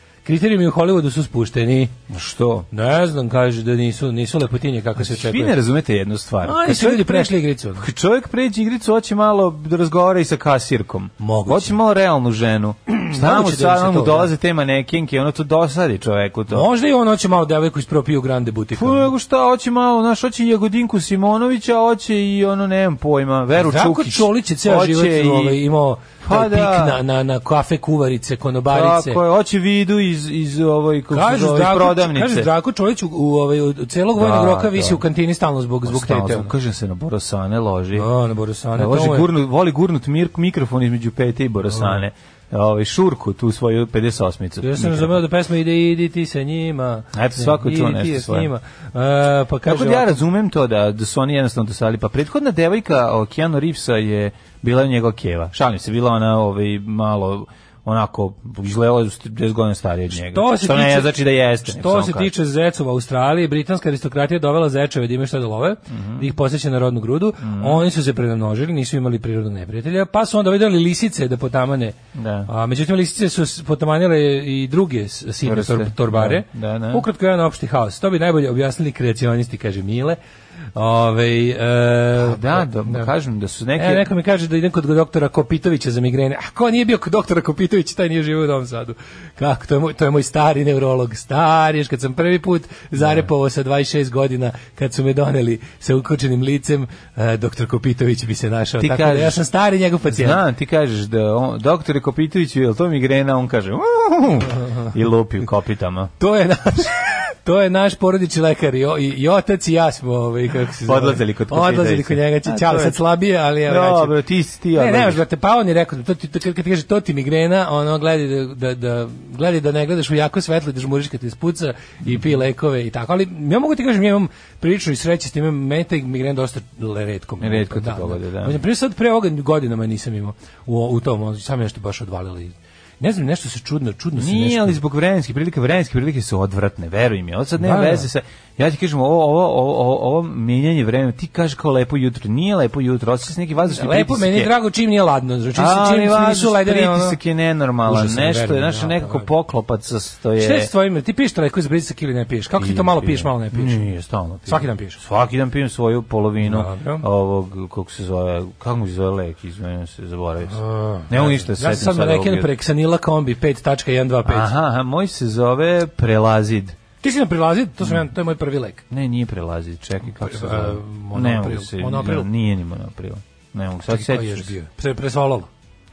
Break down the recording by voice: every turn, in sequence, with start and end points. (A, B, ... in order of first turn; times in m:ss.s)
0:00.2-0:01.9 A
0:02.1-0:02.7 B
0:02.7-0:05.6 A
0:05.0-0:16.7 B
0:06.4-0:07.8 A
0:11.2-0:11.8 A
0:12.9-0:14.3 A
0:16.5-0:19.1 A
0:18.7-0:25.6 B
0:23.5-0:29.2 A
0:26.2-0:27.0 B
0:28.7-0:32.5 B
0:31.1-0:36.5 A
0:34.1-0:35.0 B
0:35.8-0:38.1 B
0:37.9-0:39.3 A
0:38.7-0:45.2 B
0:41.7-0:42.0 A
0:44.6-0:50.2 A
0:47.1-0:48.5 B
0:49.6-1:02.3 B
1:00.1-1:12.0 A
1:05.9-1:06.2 B
1:07.4-1:07.8 B
1:12.1-1:12.5 B
1:12.5-1:20.2 A
1:15.4-1:17.0 B
1:20.7-1:23.1 A
1:22.2-1:24.1 B
1:23.8-1:40.4 A
1:33.0-1:33.3 B
1:38.8-1:39.4 B
1:40.1-1:46.1 B
1:46.2-1:54.1 A
1:50.8-1:53.0 B
1:53.6-1:55.2 B
1:54.7-2:14.8 A
2:07.4-2:08.6 B
2:14.2-2:24.5 B
2:17.6-2:18.0 A
2:23.6-2:27.2 A
2:25.5-2:30.7 B
2:27.8-2:29.3 A
2:30.4-2:33.8 A
2:32.5-2:42.5 B
2:34.5-2:35.0 A
2:36.4-2:37.0 A
2:40.5-2:44.5 A
2:44.2-2:46.8 B
2:47.0-2:48.8 A
2:48.9-2:54.5 B
2:50.2-2:52.3 A
2:53.9-2:55.5 A